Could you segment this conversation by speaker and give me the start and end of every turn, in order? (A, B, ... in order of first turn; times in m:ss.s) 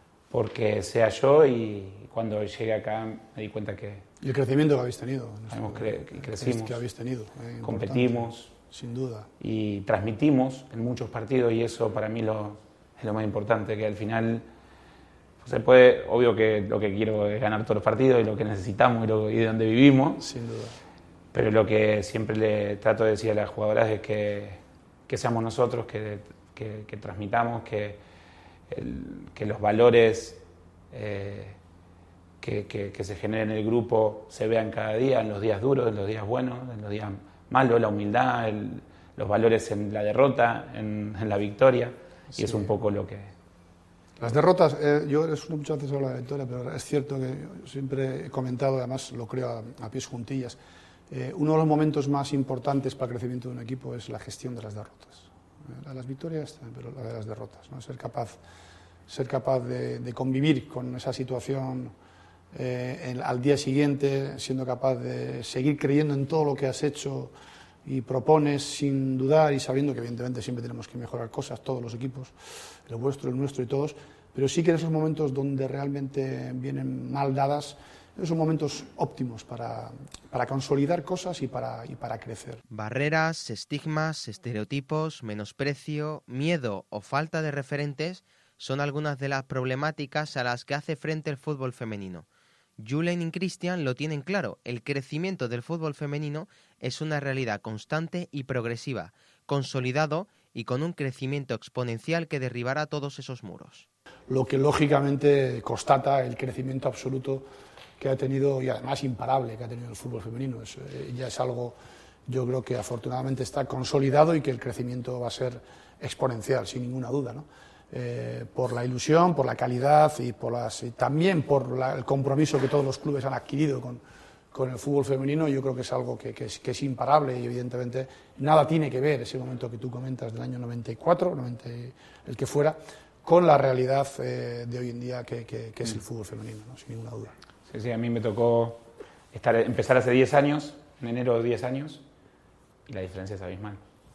0:00.3-0:04.0 A
0:04.2-0:09.3 B
0:05.5-0:06.8 A
0:07.6-0:08.5 A
0:09.4-0:14.4 A
0:15.4-0:20.2 A
0:20.2-0:20.8 B
0:21.3-0:28.0 A
0:28.7-0:31.6 A
0:32.4-0:43.3 A
0:42.3-0:42.7 B
0:44.2-0:50.6 B
0:51.1-0:58.4 B
0:59.1-1:01.9 B
1:02.5-1:07.3 B
1:07.8-1:12.3 B
1:12.9-1:22.6 B
1:22.7-1:32.2 C
1:32.8-1:43.9 C
1:44.3-1:47.4 B
1:48.0-1:51.8 B
1:52.3-2:04.0 B
2:04.5-2:17.3 B
2:17.7-2:22.0 A
2:22.9-2:23.8 A